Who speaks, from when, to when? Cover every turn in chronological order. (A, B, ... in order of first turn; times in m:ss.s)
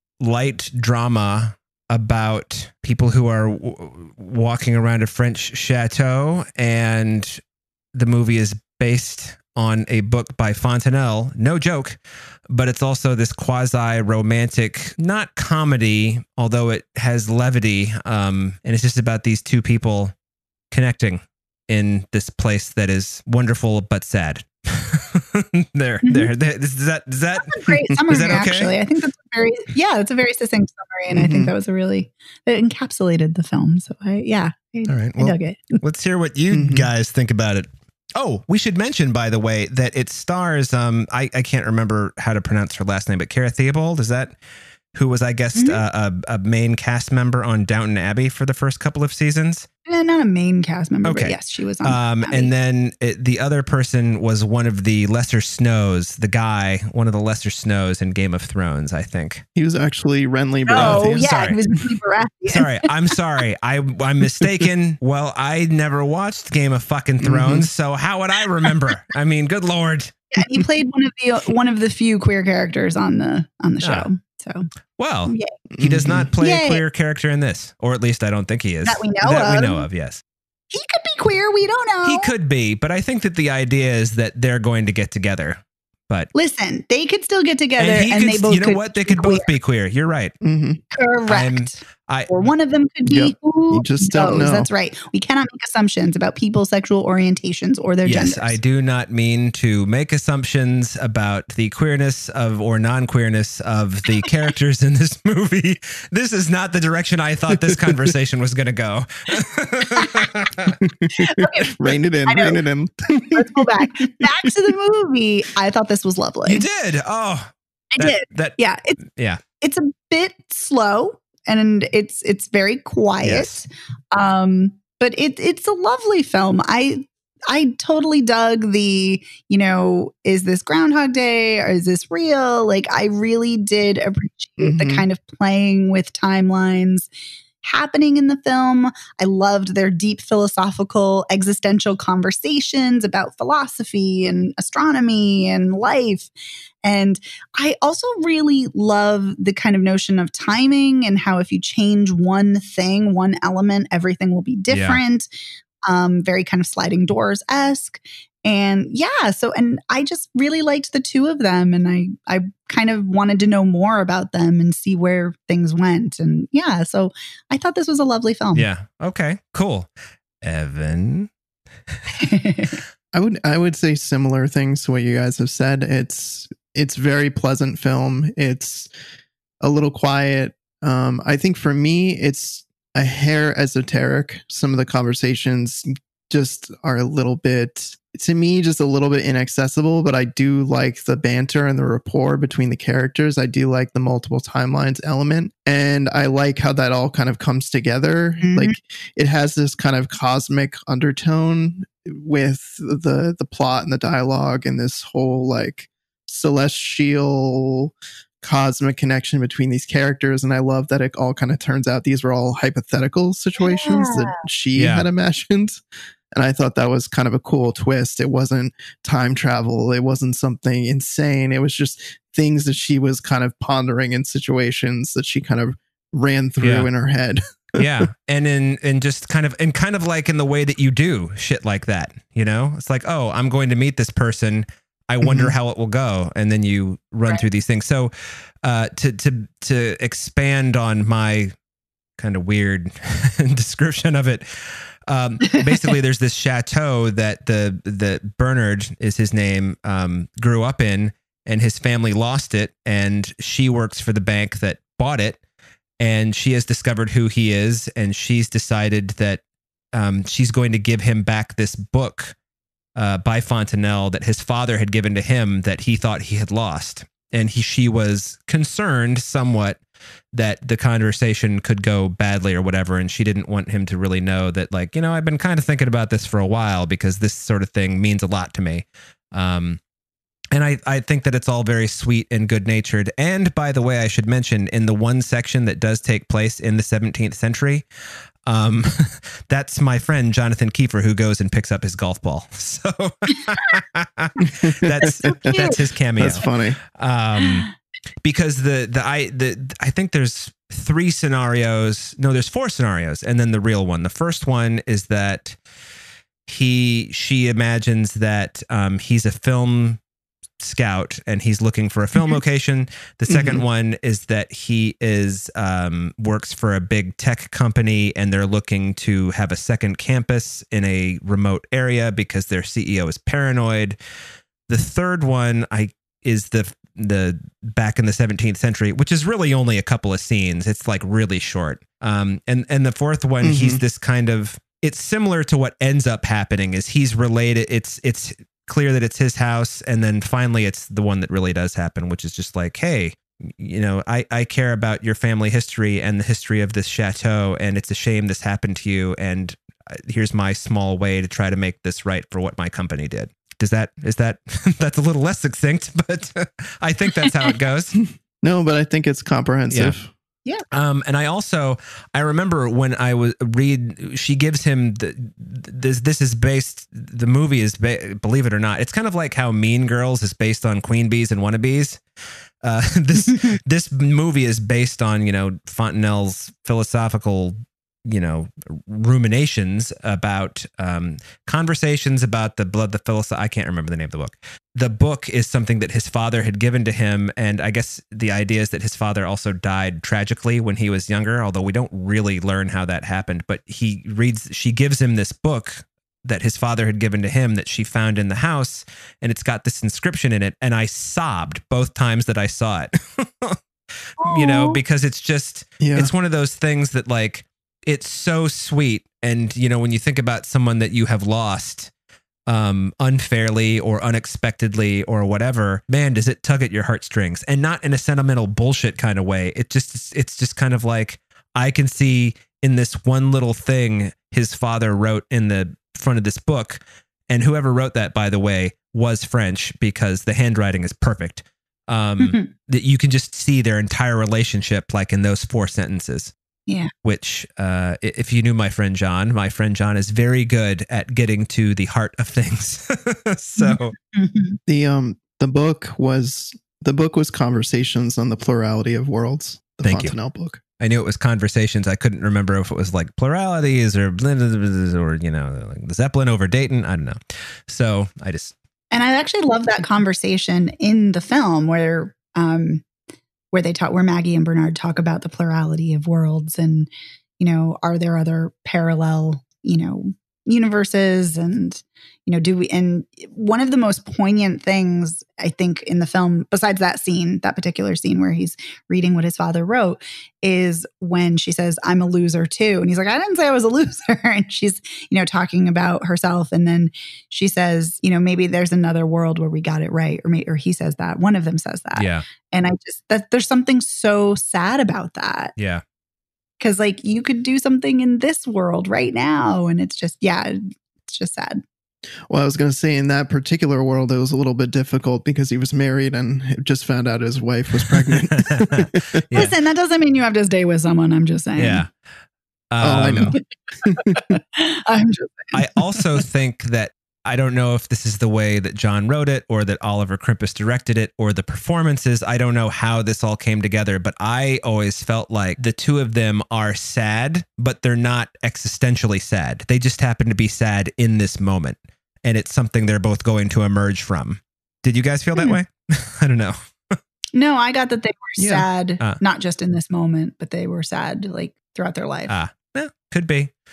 0:00.2-0:07.4 A
0:07.9-0:12.0 A
0:12.5-0:20.1 A
0:20.7-0:28.7 A
0:26.0-0:26.3 B
0:27.4-0:35.8 B
0:31.1-0:31.5 C
0:34.9-0:44.4 A
0:36.5-0:36.9 C
0:44.9-0:49.7 A
0:45.6-0:45.8 B
0:49.9-0:52.5 B
0:51.0-0:59.4 A
0:59.6-1:01.2 C
1:00.7-1:02.9 B
1:00.8-1:01.6 A
1:02.5-1:10.3 A
1:07.2-1:07.7 C
1:10.3-1:14.7 B
1:13.8-1:14.1 A
1:15.0-1:20.2 A
1:15.7-1:16.3 C
1:16.4-1:16.8 B
1:18.9-1:19.9 B
1:20.7-1:22.3 B
1:22.0-1:26.3 A
1:26.3-1:29.5 B
1:27.8-1:30.4 A
1:30.4-1:30.8 C
1:30.9-1:38.6 B
1:31.3-1:32.3 A
1:33.1-1:34.7 C
1:38.0-1:50.8 A
1:47.5-1:48.1 C
1:50.0-1:50.3 B
1:50.8-1:54.7 C
1:51.2-1:52.6 B
1:53.3-1:56.6 B
1:56.5-1:59.4 A
1:57.9-1:59.0 B
1:59.6-2:17.1 B
2:03.2-2:03.6 A
2:14.6-2:15.0 C
2:17.6-2:26.3 B
2:26.8-2:35.3 B
2:34.7-2:35.0 A
2:35.8-2:48.7 B
2:48.6-2:49.9 A
2:50.4-2:51.3 A
2:52.2-2:52.8 B
2:53.1-2:58.9 C
2:59.6-3:35.8 C
3:18.4-3:18.8 B
3:33.6-3:34.3 B
3:34.8-3:35.1 A
3:36.3-3:47.8 C
3:46.6-3:46.9 A
3:47.8-4:01.6 A
3:55.2-3:55.5 C
4:02.2-4:15.4 A
4:16.0-4:19.4 A
4:19.9-4:22.4 A
4:23.0-4:29.8 A
4:30.3-4:39.8 A
4:40.5-4:47.9 A
4:48.4-4:57.7 A
4:54.4-4:56.8 C
4:55.0-4:55.8 B
4:58.2-5:05.6 A
5:06.5-5:10.0 A
5:10.6-5:24.0 A
5:13.3-5:13.6 C
5:24.7-5:58.0 A
5:33.4-5:33.8 C
5:58.4-6:00.1 C
5:59.7-6:00.0 A
6:00.7-6:12.0 A
6:12.6-6:43.6 A
6:44.2-6:44.8 B
6:44.2-6:51.9 A
6:45.8-6:46.1 C
6:52.5-7:16.3 A
7:12.2-7:12.5 B
7:17.0-7:24.0 A
7:23.6-7:24.6 B
7:24.7-7:30.6 C
7:29.8-7:30.2 A
7:30.8-7:38.5 A
7:38.9-7:42.8 B
7:43.5-8:15.6 B
8:12.0-8:12.3 A
8:15.6-8:15.8 A
8:16.6-8:21.6 B
8:22.3-8:29.2 C
8:28.1-8:29.5 A
8:29.3-8:31.8 B
8:31.6-8:31.9 A
8:32.7-8:33.4 A
8:32.8-8:34.2 C
8:33.3-8:35.6 B
8:35.5-8:57.0 A
8:57.3-9:02.3 B
8:58.4-8:58.7 C
9:02.3-9:03.5 A